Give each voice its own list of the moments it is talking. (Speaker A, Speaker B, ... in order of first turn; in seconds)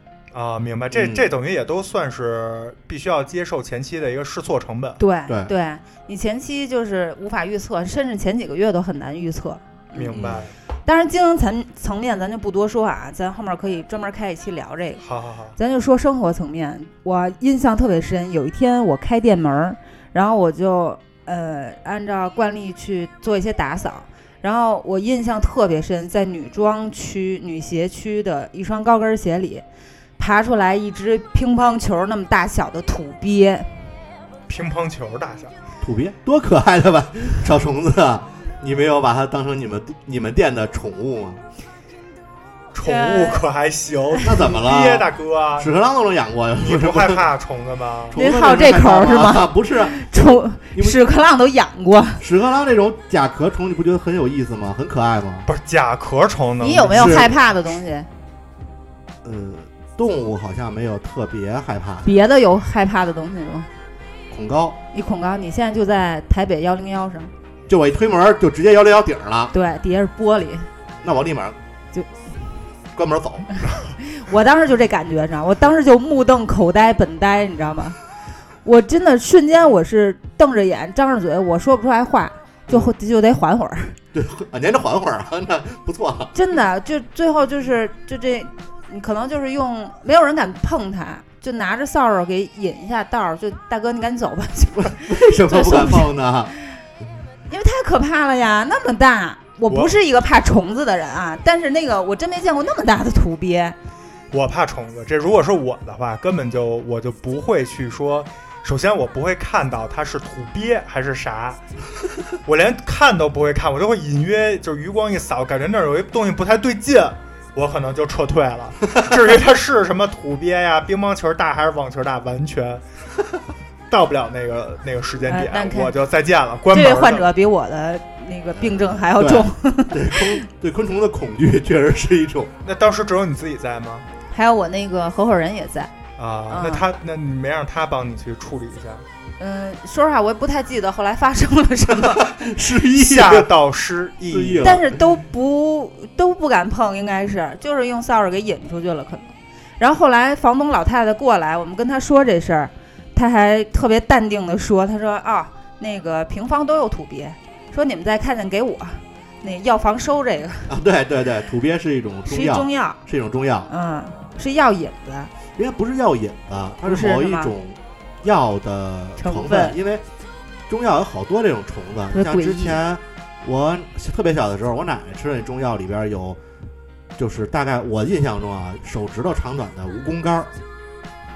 Speaker A: 0.3-5.0, 9.9-10.5, 15.0-15.6, 34.5-35.5, 42.7-45.7, 46.6-48.2, 55.5-57.3, 99.7-100.0, 104.3-111.6, 112.5-122.8, 123.9-127.3, 132.6-134.1, 136.2-139.1, 142.9-144.8
Speaker B: 0.9-1.3, 10.1-10.4, 35.8-41.4, 44.2-47.3, 48.1-50.1, 50.7-51.0, 52.2-55.5, 56.9-57.3, 59.2-62.1, 64.3-64.8, 67.7-69.5, 71.0-71.6, 72.9-73.5, 84.1-86.3, 94.8-96.5, 128.6-132.5, 142.1-143.5, 144.3-145.0, 160.7-163.7, 165.6-170.0, 170.7-176.4, 177.2-180.5
Speaker C: 5.0-10.2, 10.8-15.0, 15.6-29.6, 30.2-33.8, 42.8-43.4, 48.1-52.2, 56.6-58.1, 62.0-63.7, 64.9-67.3, 69.5-70.7, 71.9-72.2, 74.0-78.0, 78.6-84.0, 86.3-96.1, 97.5-103.8, 125.3-125.9, 126.7-130.4, 134.3-135.9, 136.5-136.9, 139.4-142.3, 144.6-160.7, 162.3-163.0, 163.7-165.3, 166.8-167.5, 169.2-169.8, 172.1-172.8